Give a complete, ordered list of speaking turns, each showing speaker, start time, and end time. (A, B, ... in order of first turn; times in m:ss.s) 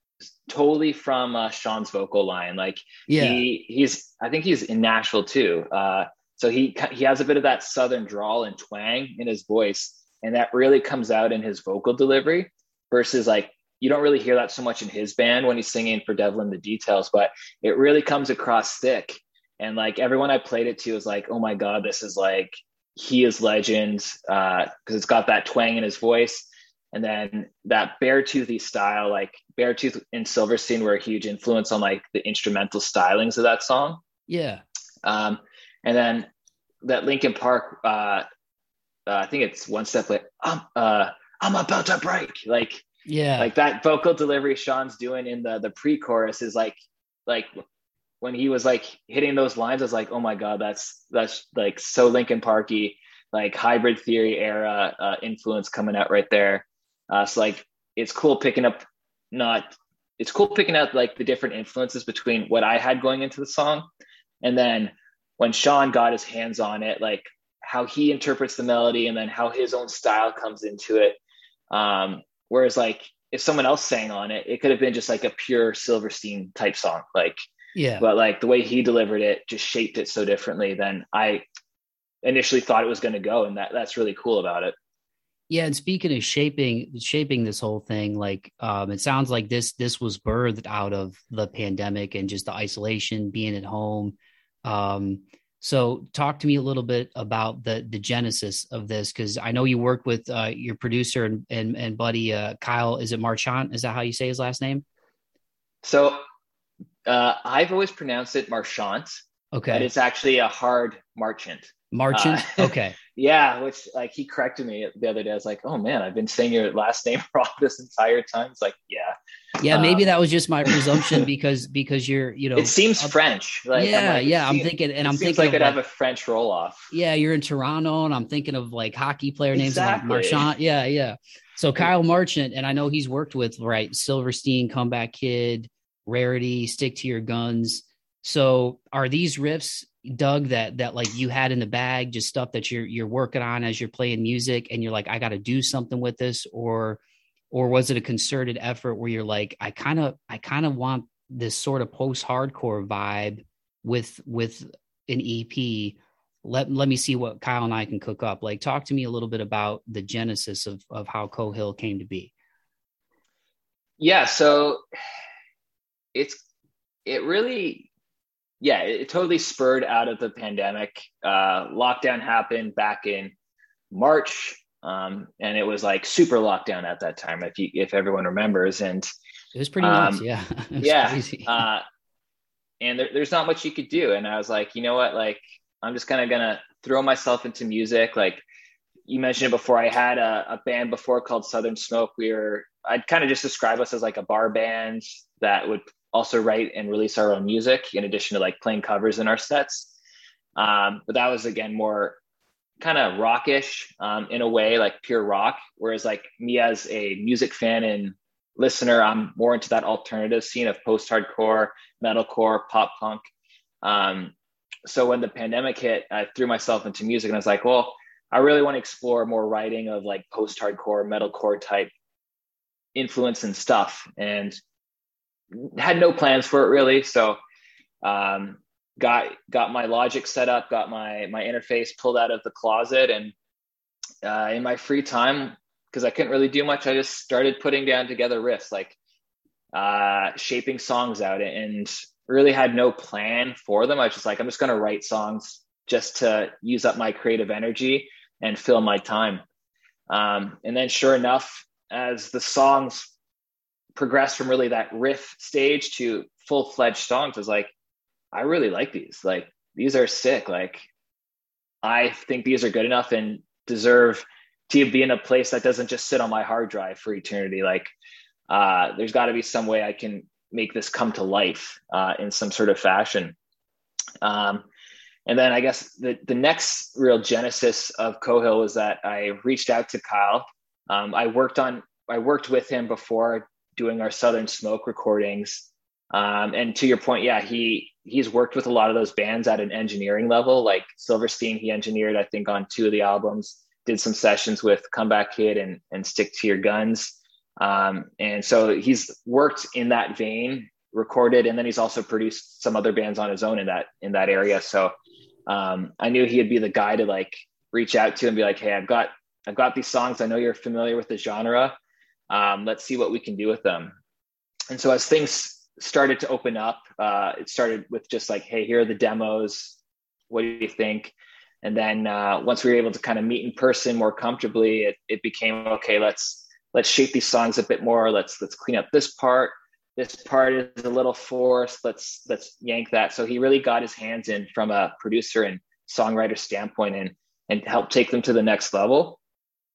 0:00.5-0:34.0 A
0:03.1-0:03.4 B
0:34.3-0:34.6 B
0:35.0-0:36.3 A
0:36.8-0:38.3 A
0:39.1-0:42.8 A
0:43.1-0:43.5 B
0:43.4-0:47.5 A
0:48.2-0:58.8 A
0:59.3-1:03.9 A
1:04.4-1:11.2 A
1:11.7-1:17.4 A
1:17.8-1:18.0 B
1:18.0-1:21.4 A
1:22.2-1:24.8 A
1:25.5-1:44.8 B
1:45.8-1:46.2 A
1:47.0-1:59.2 A
1:49.5-1:49.9 B
1:51.9-1:53.0 B
1:59.6-2:03.1 B
1:59.7-2:00.1 A
2:00.7-2:01.2 A
2:02.6-2:06.9 A
2:03.7-2:05.8 B
2:06.9-2:27.0 B
2:09.6-2:10.4 A
2:27.5-2:42.3 B
2:44.0-2:44.8 A
2:46.1-2:46.4 A
2:47.1-2:47.9 A
2:48.6-2:53.3 A
2:53.9-2:59.1 A
2:59.6-3:01.6 B
2:59.8-3:00.2 A
3:00.8-3:01.8 A
3:02.8-3:08.4 A
3:09.1-3:19.9 A
3:20.6-3:22.2 A
3:22.8-3:33.2 A
3:33.8-3:34.3 A
3:34.9-3:41.9 A
3:43.0-3:44.6 A
3:45.5-3:47.4 A
3:48.0-3:53.3 A
3:54.2-3:59.0 A
3:59.7-4:09.4 A
4:10.1-4:13.1 A
4:14.0-4:17.7 A
4:18.3-4:20.9 A
4:21.8-4:27.9 A
4:28.5-4:33.4 A
4:34.2-4:34.7 A
4:35.3-5:04.9 A
5:05.5-5:11.8 A
5:12.3-5:14.0 A
5:14.7-5:19.8 A
5:20.3-5:39.2 A